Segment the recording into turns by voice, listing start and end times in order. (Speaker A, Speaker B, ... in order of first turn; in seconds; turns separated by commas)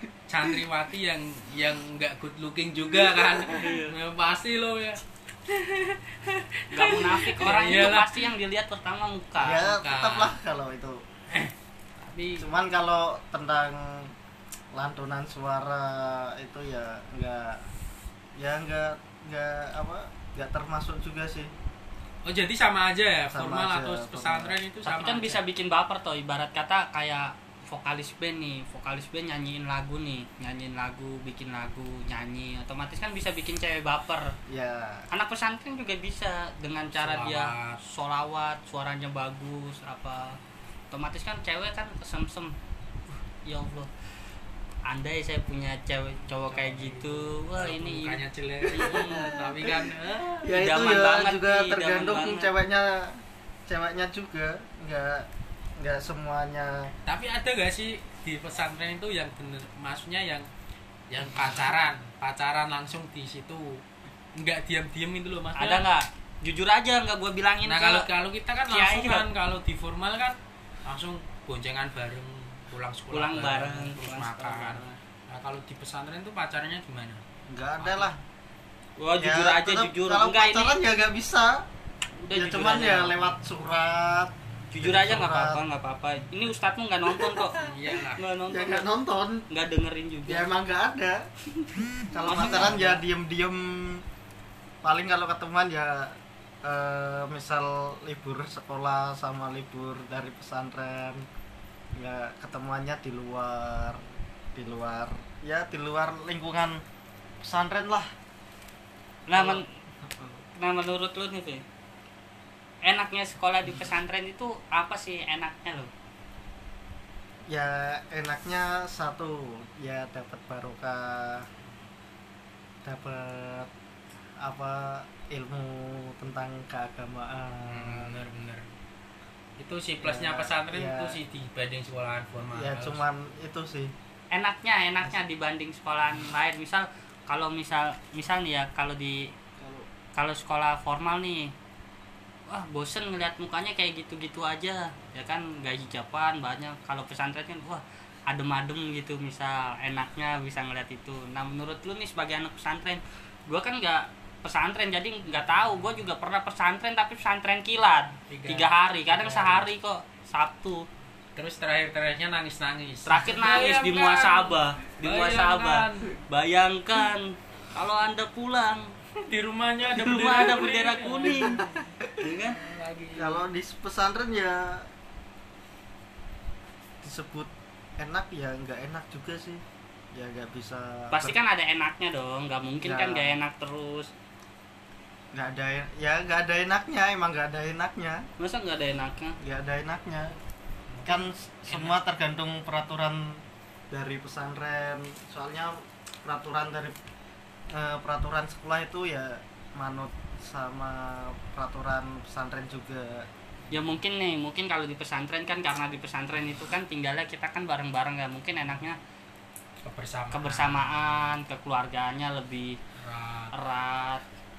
Speaker A: 0.3-8.3, Speaker B: 3.5-3.9, Speaker B: 6.7-9.7, Speaker C: 9.4-11.0, Speaker A: 9.7-10.4, Speaker A: 11.3-12.5, Speaker C: 12.4-14.1, Speaker C: 14.7-17.7, Speaker C: 18.4-21.5, Speaker A: 22.2-25.4, Speaker C: 23.3-24.6, Speaker B: 24.9-34.3, Speaker C: 34.5-35.1, Speaker B: 35.1-40.4, Speaker A: 36.9-37.8, Speaker B: 40.9-42.5, Speaker B: 43.4-43.9, Speaker B: 44.9-49.3, Speaker A: 46.4-50.5, Speaker C: 48.7-55.3, Speaker B: 50.5-52.5, Speaker C: 55.8-56.9, Speaker A: 57.1-60.5, Speaker A: 61.1-63.8, Speaker A: 64.3-65.9, Speaker B: 65.6-68.1, Speaker A: 67.6-77.2, Speaker B: 68.7-69.2, Speaker B: 73.1-75.0, Speaker C: 77.5-78.2, Speaker A: 77.8-78.1, Speaker B: 79.0-80.8, Speaker C: 79.2-81.6, Speaker B: 82.2-83.3, Speaker C: 82.3-85.6, Speaker B: 84.7-88.9, Speaker C: 87.2-87.5, Speaker A: 87.6-88.2, Speaker C: 88.5-89.5, Speaker B: 89.5-90.5, Speaker C: 90.2-91.2, Speaker C: 92.1-94.0, Speaker B: 92.1-93.0, Speaker C: 94.8-101.3, Speaker C: 102.0-106.8, Speaker C: 107.4-108.1, Speaker B: 109.3-109.7, Speaker C: 109.3-110.4, Speaker B: 110.6-111.6, Speaker B: 112.8-115.9, Speaker C: 117.5-121.5, Speaker C: 122.8-123.7, Speaker C: 124.4-128.3, Speaker A: 127.7-128.7, Speaker A: 129.6-133.0, Speaker C: 130.0-131.2, Speaker C: 132.5-133.9, Speaker B: 134.3-139.3, Speaker C: 139.6-139.9, Speaker B: 140.2-141.5, Speaker B: 142.5-160.8, Speaker A: 158.3-159.7, Speaker A: 161.4-166.2, Speaker B: 163.1-168.9, Speaker A: 169.2-173.4, Speaker B: 169.9-171.6, Speaker B: 172.2-172.6, Speaker C: 173.2-174.9, Speaker C: 177.0-181.4, Speaker B: 181.1-184.1, Speaker C: 182.8-183.4, Speaker C: 185.3-188.2, Speaker B: 188.4-189.4, Speaker C: 189.4-190.4, Speaker A: 190.9-192.0, Speaker C: 191.1-197.0, Speaker C: 197.7-203.3, Speaker B: 203.7-209.0, Speaker A: 209.8-210.9, Speaker B: 210.3-212.8, Speaker A: 213.0-213.5, Speaker B: 213.5-214.2